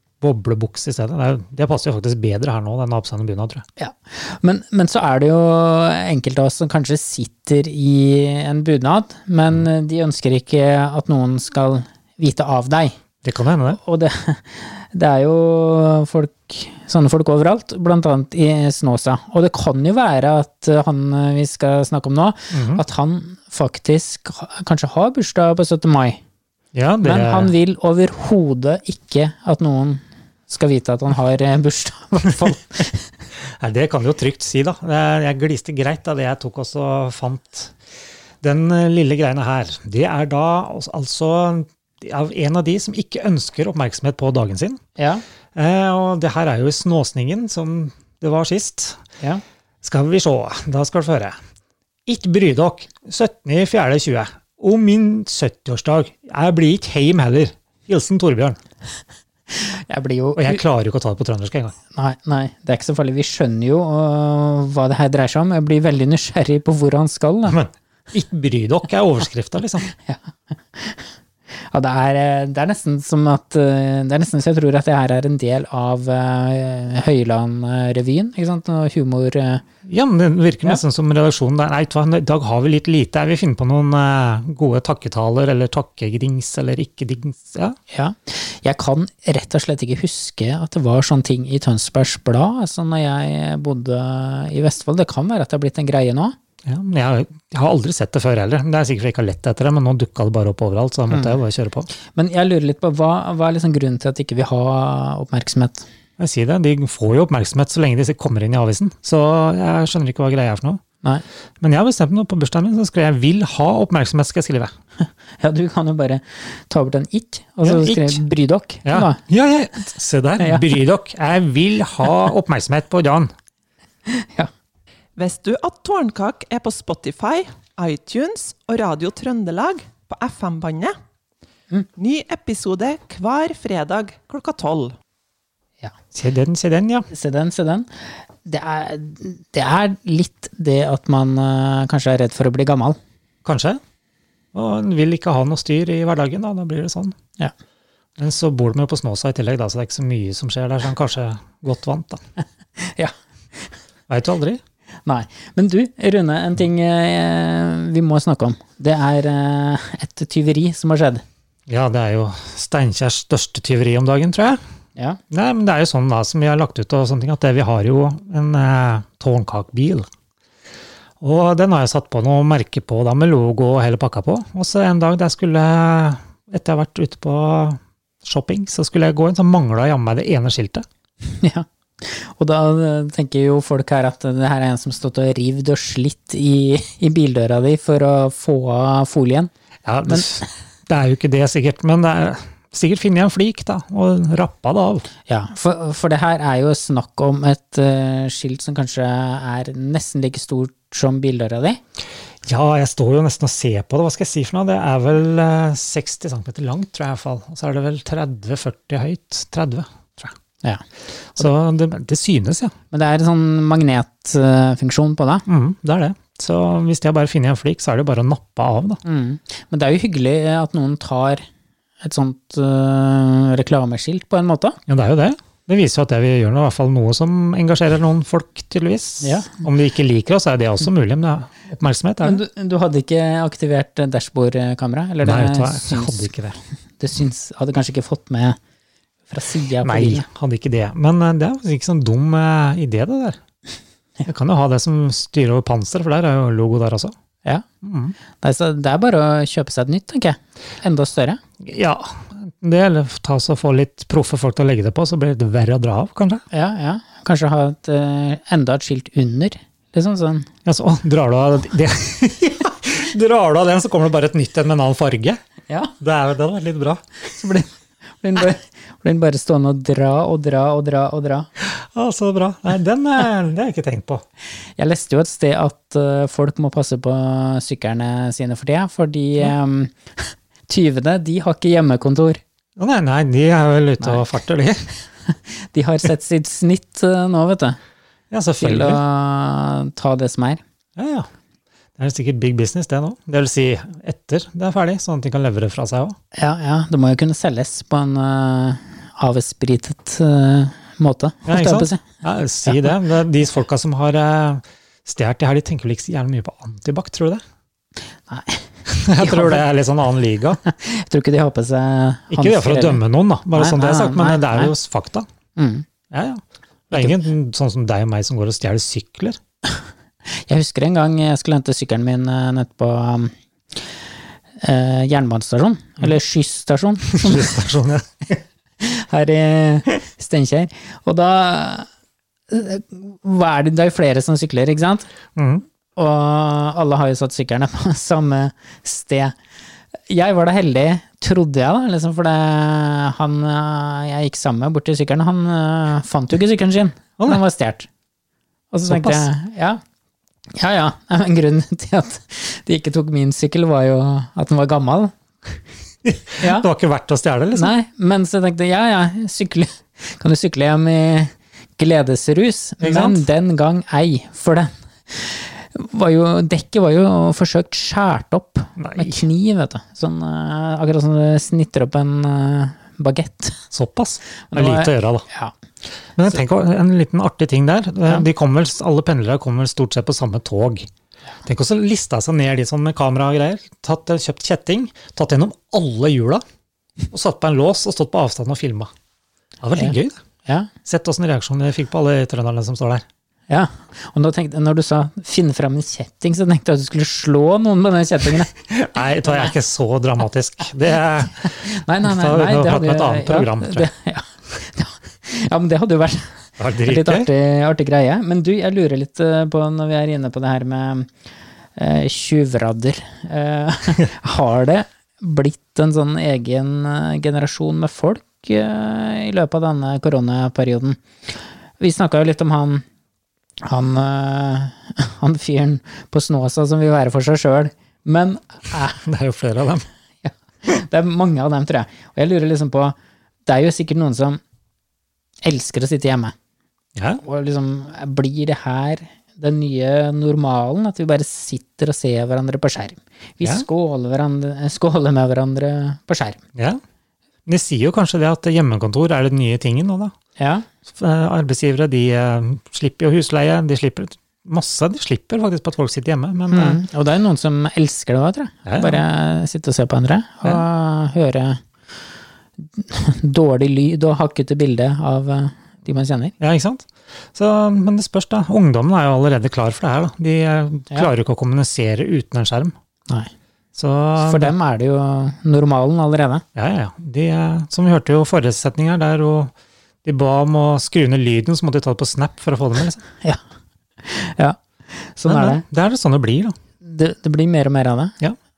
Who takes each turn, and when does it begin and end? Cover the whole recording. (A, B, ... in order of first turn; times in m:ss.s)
0:00.2-0:03.6 A
0:03.8-0:12.9 B
0:13.2-0:13.8 A
0:13.7-0:26.2 B
0:22.5-0:22.8 A
0:26.7-0:27.5 A
0:27.0-0:33.1 B
0:33.6-0:37.7 A
0:38.4-0:44.8 A
0:45.0-0:45.2 B
0:45.6-0:49.0 A
0:49.8-0:51.4 A
0:52.1-0:58.6 A
0:59.5-1:00.6 B
1:00.4-1:01.8 A
1:01.9-1:07.6 B
1:07.5-1:09.9 A
1:10.7-1:11.1 B
1:11.7-1:19.6 B
1:19.9-1:27.8 A
1:27.9-1:36.4 B
1:36.7-1:41.9 A
1:41.1-1:41.4 B
1:42.1-1:45.9 B
1:46.2-1:50.8 A
1:51.6-1:54.7 A
1:55.4-1:59.2 B
1:57.6-1:58.2 A
1:58.8-2:03.3 A
2:00.4-2:00.6 B
2:04.1-2:04.5 B
2:05.2-2:10.9 C
2:12.0-2:15.0 C
2:16.1-2:17.1 A
2:17.1-2:17.9 B
2:18.4-2:23.0 B
2:23.4-2:23.8 A
2:24.5-2:27.2 A
2:28.2-2:32.2 A
2:32.8-2:33.1 B
2:34.1-2:34.6 A
2:35.1-2:41.2 B
2:41.7-2:44.6 A
2:45.3-2:50.1 A
2:51.2-3:00.8 A
3:01.3-3:09.5 B
3:09.9-3:15.1 A
3:10.0-3:10.4 B
3:15.3-3:21.8 B
3:22.4-3:30.3 A
3:31.3-3:32.7 A
3:32.9-3:35.4 B
3:35.5-3:39.0 A
3:39.0-3:41.4 B
3:42.0-3:44.8 B
3:44.9-3:52.4 A
3:49.2-3:49.6 B
3:52.2-3:56.3 B
3:55.2-3:56.6 A
3:57.0-3:58.6 B
3:59.3-4:00.2 B
3:59.8-4:03.4 A
4:04.2-4:07.1 A
4:07.8-4:08.2 A
4:08.4-4:11.4 B
4:11.6-4:16.4 A
4:16.5-4:20.5 B
4:20.6-4:25.4 A
4:25.7-4:25.9 B
4:26.0-4:27.0 A
4:27.3-4:27.7 B
4:28.2-4:31.5 B
4:31.6-4:34.2 A
4:34.8-4:42.4 B
4:42.8-4:44.9 A
4:44.0-4:44.2 B
4:45.3-4:47.8 B
4:48.3-4:49.0 A
4:48.6-4:50.6 B
4:51.0-4:51.3 A
4:52.0-4:56.2 A
4:56.3-5:02.0 B
5:01.5-5:07.4 A
5:08.3-5:08.6 B
5:08.9-5:10.6 A
5:09.2-5:09.7 B
5:10.6-5:13.0 B
5:12.3-5:15.3 A
5:13.5-5:14.7 B
5:15.6-5:15.8 B
5:16.1-5:19.4 A
5:20.5-5:23.9 B
5:24.6-5:27.6 B
5:27.1-5:28.1 A
5:28.8-5:31.9 B
5:32.5-5:35.1 B
5:35.4-5:35.6 A
5:36.0-5:39.4 B
5:40.1-5:47.9 B
5:48.7-5:49.8 B
5:48.9-5:49.3 A
5:50.6-5:55.1 B
5:56.1-5:57.7 A
5:56.4-5:56.7 B
5:57.5-6:13.6 B
6:02.8-6:03.2 A
6:08.8-6:09.2 A
6:13.7-6:15.3 A
6:14.5-6:15.5 B
6:16.2-6:20.9 A
6:21.4-6:26.4 A
6:27.1-6:28.9 A
6:29.6-6:30.2 A
6:29.8-6:30.7 B
6:30.8-6:33.0 A
6:33.5-6:38.5 B
6:38.6-6:43.9 A
6:41.4-6:46.3 B
6:46.6-6:47.3 A
6:46.8-6:51.1 B
6:51.8-7:01.0 B
7:01.8-7:02.8 B
7:03.7-7:09.0 B
7:09.0-7:09.8 A
7:10.2-7:13.0 B
7:13.5-7:14.4 B
7:15.4-7:16.3 B
7:17.0-7:17.2 A
7:17.2-7:26.4 B
7:27.5-7:30.1 A
7:30.4-7:30.6 B
7:30.9-7:36.8 A
7:36.5-7:41.6 B
7:38.6-7:39.0 A
7:42.6-7:46.4 B
7:46.4-7:52.7 A
7:53.8-7:54.5 A
7:54.2-7:56.4 B
7:56.6-7:59.5 A
8:00.0-8:03.0 A
8:04.0-8:04.6 B
8:05.2-8:05.6 B
8:05.3-8:06.6 A
8:06.8-8:08.2 B